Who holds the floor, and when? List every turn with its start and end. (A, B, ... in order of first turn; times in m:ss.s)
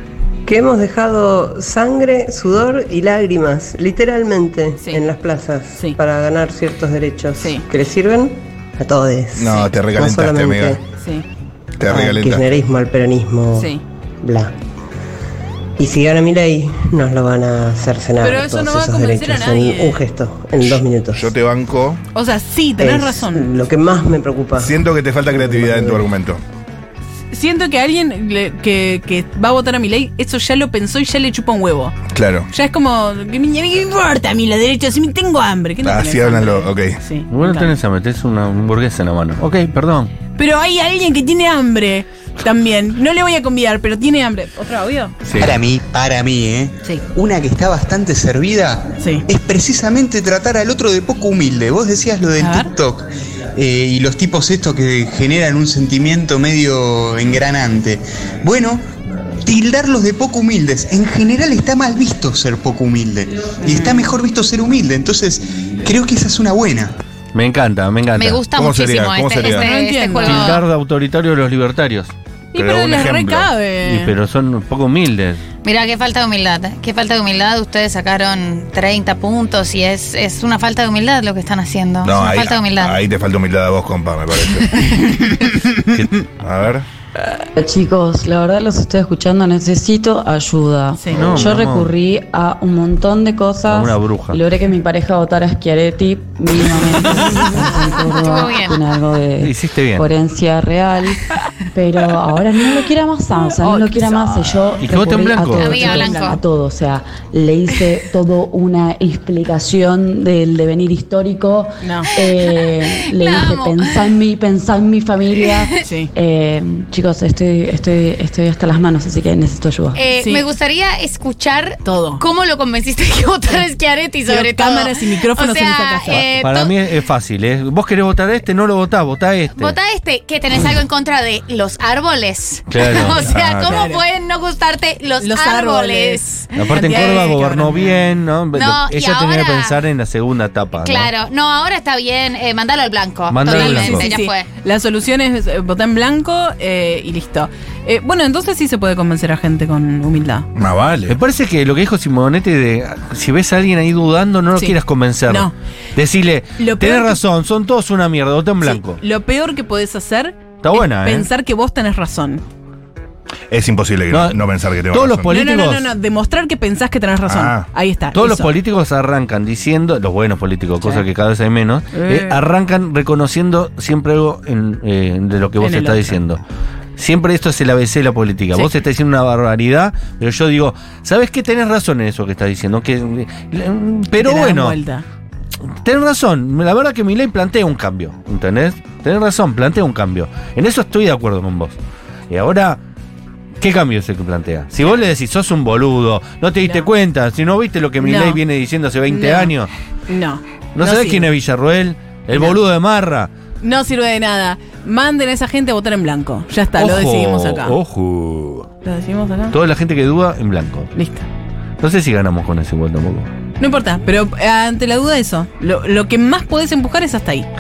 0:00.5-0:05.6 A
0:06.2-0:10.8 A
0:07.4-0:07.7 B
0:09.4-0:10.8 C
0:11.0-0:11.2 B
0:11.8-0:12.4 C
0:11.9-0:13.6 A
0:13.6-0:13.8 B
0:15.8-0:21.3 A
0:18.2-0:20.0 B
0:21.2-0:22.0 C
0:22.1-0:23.5 B
0:22.8-0:26.1 A
0:24.6-0:26.4 C
0:27.3-0:31.9 B
0:32.1-0:32.5 C
0:32.5-0:37.7 B
0:35.8-0:37.0 C
0:37.3-0:40.1 D
0:40.4-0:45.2 B
0:45.4-0:58.8 E
0:52.4-0:52.7 B
0:59.4-1:07.0 E
1:03.6-1:04.1 B
1:07.3-1:08.4 D
1:08.2-1:10.6 F
1:08.6-1:09.7 C
1:09.4-1:10.6 B
1:10.2-1:12.1 D
1:12.5-1:14.2 B
1:12.6-1:13.5 C
1:13.8-1:15.4 D
1:15.6-1:23.0 F
1:22.0-1:24.8 C
1:26.4-1:26.9 C
1:27.6-1:41.2 G
1:31.0-1:31.3 B
1:31.1-1:32.0 D
1:31.2-1:31.6 C
1:33.7-1:34.4 D
1:37.6-1:38.0 B
1:38.1-1:38.8 F
1:39.4-1:40.1 D
1:41.7-2:00.0 G
1:43.3-1:44.7 B
1:44.8-1:45.8 D
1:45.6-1:46.4 F
1:45.8-1:46.4 B
1:51.8-1:52.1 B
1:52.1-1:54.1 F
1:55.8-1:56.1 B
2:00.0-2:06.8 F
2:00.1-2:00.4 B
2:01.8-2:02.2 B
2:04.3-2:06.2 B
2:06.1-2:09.8 D
2:09.6-2:17.2 F
2:12.7-2:13.2 D
2:13.2-2:14.0 B
2:13.3-2:13.8 C
2:15.2-2:18.2 B
2:16.5-2:21.1 D
2:18.5-2:19.8 F
2:20.8-2:24.5 F
2:23.3-2:24.1 D
2:23.4-2:30.5 B
2:30.6-2:31.2 C
2:31.1-2:39.0 D
2:34.6-2:35.5 B
2:36.6-2:37.2 B
2:38.6-2:42.4 B
2:40.6-2:41.3 D
2:43.5-2:45.3 C
2:44.1-2:45.9 D
2:45.2-2:48.6 B
2:47.3-2:47.7 C
2:48.1-2:56.4 D
2:50.8-2:51.1 B
2:51.9-2:52.4 B
2:55.6-2:56.2 B
2:57.0-3:04.8 D
3:04.1-3:05.0 B
3:05.8-3:11.8 D
3:12.3-3:12.8 D
3:13.6-3:19.7 D
3:16.6-3:16.9 B
3:18.0-3:18.4 B
3:19.1-3:19.6 B
3:20.1-3:21.3 B
3:20.8-3:23.3 D
3:22.3-3:22.6 B
3:23.6-3:27.8 B
3:26.8-3:28.7 D
3:28.8-3:29.6 B
3:29.5-3:30.9 D
3:30.9-3:31.3 B
3:31.8-3:33.3 D
3:33.6-3:37.5 B